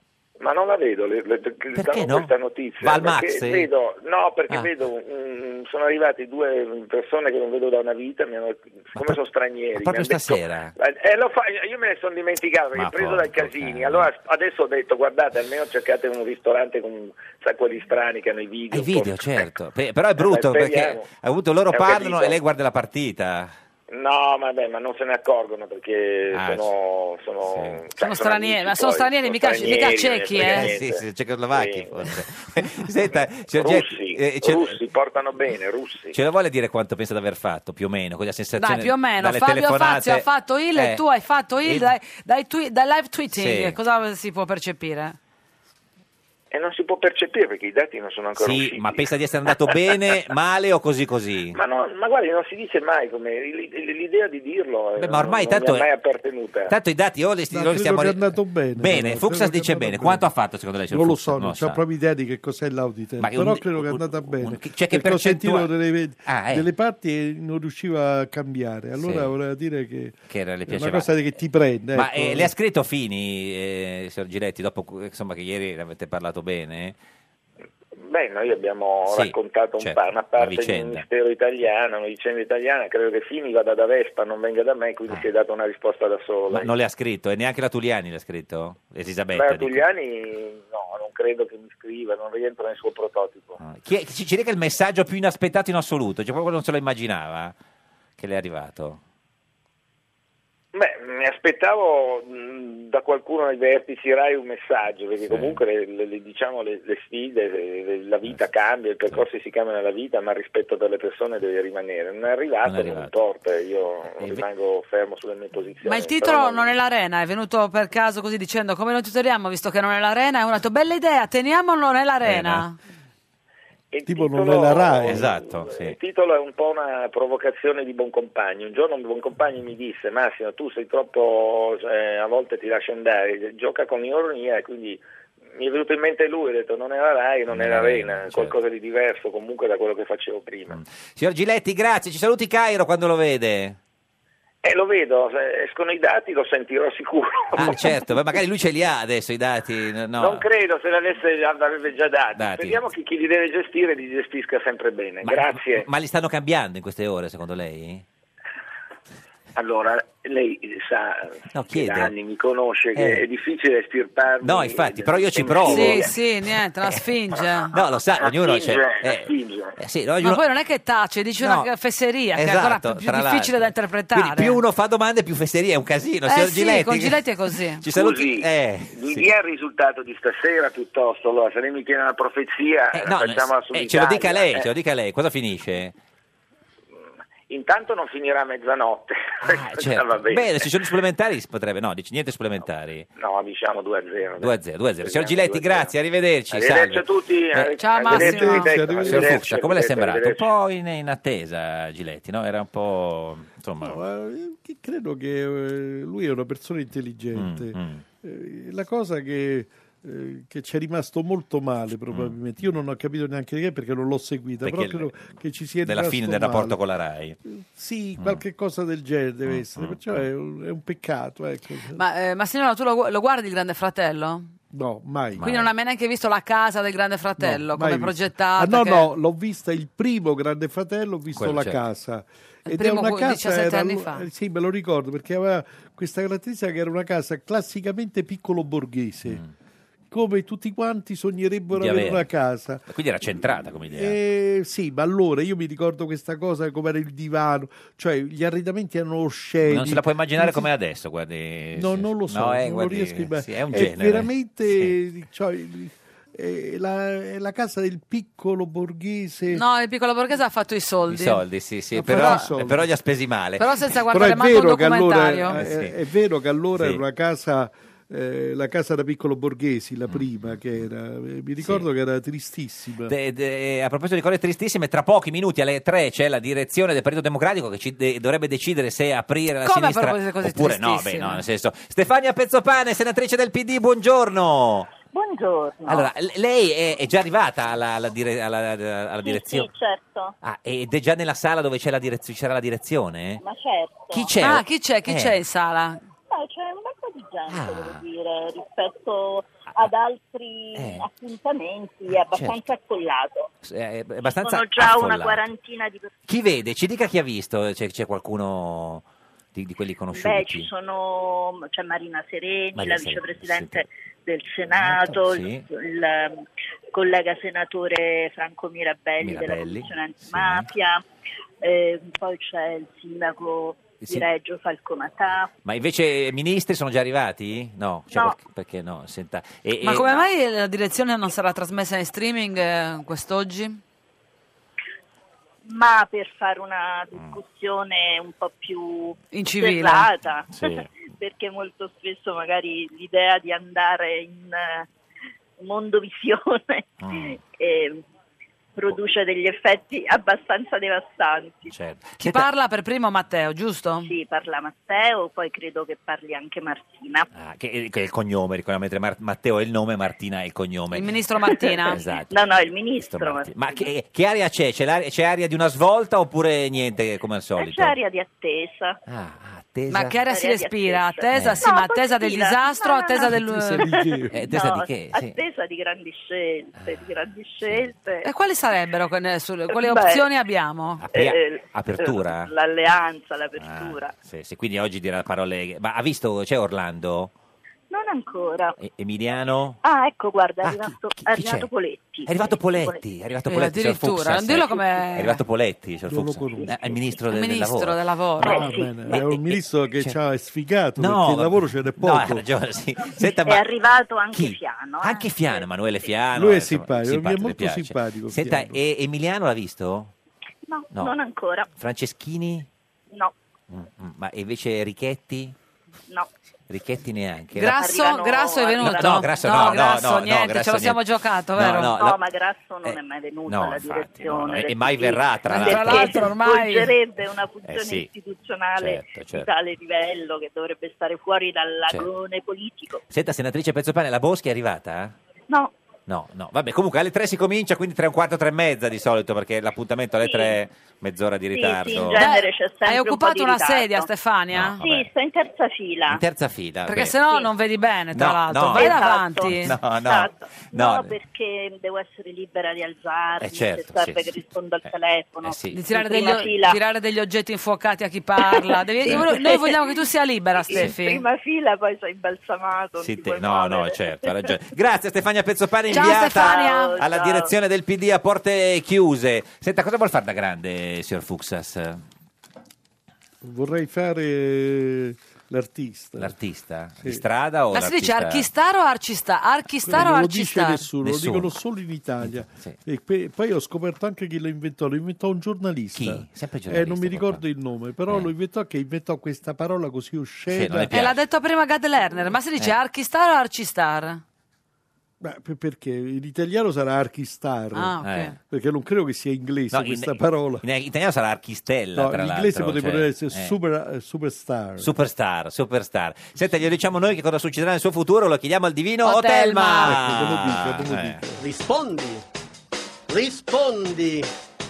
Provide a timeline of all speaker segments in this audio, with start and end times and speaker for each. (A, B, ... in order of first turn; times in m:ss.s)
0:00.4-0:19.5 A
0:01.7-0:03.7 B
0:09.7-0:10.7 B
0:12.7-0:14.1 B
0:18.7-0:23.5 B
0:20.2-0:21.1 A
0:21.7-0:22.4 A
0:23.9-0:32.1 A
0:26.3-0:26.7 B
0:27.4-0:27.8 B
0:28.0-0:30.7 C
0:30.4-0:34.8 B
0:33.1-0:36.1 A
0:36.1-0:41.0 B
0:38.6-0:45.2 C
0:41.6-0:41.9 B
0:43.3-0:43.8 B
0:46.5-0:50.0 A
0:48.4-0:51.6 B
0:51.5-0:56.7 A
0:55.0-0:55.9 B
0:56.7-1:01.8 B
0:57.5-1:00.2 D
1:00.9-1:10.1 D
1:03.2-1:05.7 B
1:06.2-1:06.6 B
1:09.0-1:09.3 B
1:10.3-1:11.1 B
1:10.7-1:12.5 D
1:11.9-1:17.0 B
1:18.0-1:26.7 A
1:19.1-1:21.0 B
1:26.5-1:29.8 B
1:29.3-1:33.6 A
1:33.6-1:37.5 B
1:38.2-1:39.0 B
1:40.7-1:56.7 A
1:45.2-1:45.6 B
1:52.6-1:53.1 B
1:54.2-1:54.4 B
1:55.8-2:02.8 C
2:02.2-2:02.6 B
2:03.9-2:15.0 A
2:04.0-2:05.3 D
2:05.0-2:06.0 B
2:15.5-2:20.8 A
2:17.5-2:18.6 B
2:20.7-2:23.8 B
2:24.6-2:27.9 A
2:27.5-2:30.5 B
2:30.2-2:35.9 A
2:32.4-2:32.8 B
2:35.2-2:38.0 B
2:39.6-2:46.0 A
2:41.5-2:42.1 B
2:42.9-2:43.2 B
2:44.4-2:46.1 B
2:45.7-2:47.7 C
2:47.7-2:50.4 B
2:48.2-2:49.7 A
2:50.2-2:54.6 C
2:51.4-2:51.7 B
2:52.3-2:57.2 B
2:56.3-2:57.8 C
2:57.8-2:59.3 B
2:57.9-3:04.7 A
3:02.9-3:05.9 B
3:06.9-3:10.7 A
3:09.4-3:13.1 B
3:13.2-3:15.9 A
3:14.4-3:17.8 B
3:16.5-3:20.5 A
3:17.8-3:18.7 C
3:18.0-3:19.4 D
3:19.0-3:24.0 B
3:23.8-3:36.8 D
3:27.3-3:28.0 B
3:32.1-3:32.3 B
3:34.6-3:35.1 B
3:35.8-3:37.4 B
3:37.4-3:42.0 D
3:39.5-3:40.2 B
3:41.9-3:44.5 C
3:44.7-3:45.4 D
3:45.4-3:45.7 B
3:45.4-3:49.1 C
3:47.4-3:59.4 D
3:51.4-3:51.8 B
3:52.6-3:54.2 C
4:00.1-4:02.8 D
4:01.7-4:02.3 B
4:02.9-4:04.1 B
4:03.9-4:10.7 D
4:09.7-4:14.9 B
4:11.7-4:19.6 D
4:19.5-4:21.4 C
4:21.1-4:23.6 B
4:21.9-4:22.9 D
4:22.1-4:22.5 C
4:23.6-4:25.6 C
4:24.1-4:33.1 D
4:25.5-4:25.9 B
4:26.7-4:27.0 B
4:30.1-4:30.5 B
4:31.6-4:31.8 B
4:33.1-4:44.9 B
4:39.6-4:41.4 C
4:45.1-4:46.1 E
4:45.9-4:49.7 B
4:49.2-4:50.3 E
4:50.4-4:53.4 B
4:53.4-4:54.3 E
4:54.1-4:55.4 B
4:54.4-4:56.0 C
4:56.3-5:03.5 E
4:57.5-4:58.0 B
5:00.8-5:01.0 B
5:02.1-5:02.6 B
5:03.6-5:05.5 B
5:04.4-5:06.1 E
5:06.3-5:09.0 B
5:09.5-5:10.7 B
5:10.1-5:21.0 E
5:12.7-5:13.8 B
5:14.7-5:15.6 B
5:19.2-5:20.7 B
5:21.6-5:25.5 E
5:24.0-5:24.3 B
5:25.6-5:30.2 B
5:29.8-5:33.8 C
5:35.6-5:44.9 E
5:39.3-5:40.1 C
5:40.5-5:40.9 B
5:45.6-5:48.0 E
5:47.0-5:47.4 B
5:48.8-5:51.7 E
5:51.7-5:52.5 B
5:52.2-5:54.1 C
5:54.0-5:57.3 E
5:57.3-6:01.2 B
6:00.9-6:02.0 C
6:01.4-6:03.9 E
6:01.8-6:02.4 B
6:03.0-6:08.0 B
6:07.6-6:09.0 E
6:09.0-6:10.2 B
6:09.9-6:13.8 C
6:10.2-6:18.3 E
6:11.3-6:11.7 B
6:13.3-6:14.4 D
6:14.3-6:15.4 B
6:16.7-6:17.9 B
6:18.2-6:21.0 C
6:19.7-6:20.3 E
6:21.0-6:22.5 B
6:21.1-6:24.1 E
6:23.6-6:27.3 B
6:27.9-6:28.8 E
6:28.8-6:29.8 B
6:29.8-6:33.0 E
6:30.6-6:31.7 B
6:32.2-6:38.0 B
6:33.5-6:35.4 C
6:36.0-6:37.0 D
6:37.3-6:38.6 C
6:38.4-6:39.2 E
6:38.4-6:42.4 D
6:39.1-6:40.2 B
6:41.0-6:43.7 B
6:43.2-6:46.2 E
6:44.3-6:50.1 B
6:46.3-6:48.8 D
6:50.7-6:51.7 E
6:51.8-6:52.7 B
6:53.7-6:55.5 B
6:56.7-6:58.0 B
6:57.5-7:01.9 C
6:57.6-6:59.9 E
6:58.8-7:01.0 B
7:01.5-7:02.2 B
7:01.9-7:13.0 E
7:02.8-7:06.3 B
7:05.5-7:06.9 C
7:07.6-7:08.1 B
7:08.8-7:09.5 B
7:13.1-7:15.1 B
7:16.1-7:22.2 B
7:20.2-7:20.6 E
7:21.5-7:24.1 E
7:22.1-7:24.8 C
7:24.5-7:25.1 B
7:24.8-7:26.2 E
7:26.1-7:27.2 B
7:26.8-7:29.8 C
7:28.1-7:31.2 B
7:28.7-7:36.8 E
7:33.4-7:34.9 B
7:35.4-7:36.5 B
7:35.7-7:41.2 C
7:38.5-7:40.0 E
7:39.0-7:39.4 B
7:40.6-7:44.6 E
7:40.7-7:41.0 B
7:43.0-7:52.0 B
7:45.9-7:47.5 E
7:45.9-7:47.0 C
7:53.4-7:56.3 D
7:56.2-7:58.5 B
7:57.7-8:00.8 C
7:59.8-8:10.9 D
8:01.0-8:01.5 B
8:02.2-8:02.8 B
8:05.9-8:07.4 B
8:10.5-8:11.2 B
8:10.9-8:14.2 C
8:15.2-8:20.6 D
8:17.7-8:18.4 C
8:18.0-8:18.3 B
8:19.7-8:23.5 B
8:21.9-8:24.9 D
8:24.8-8:31.2 B
8:29.0-8:30.0 C
8:29.8-8:31.4 D
8:31.4-8:32.2 F
8:33.1-8:34.3 F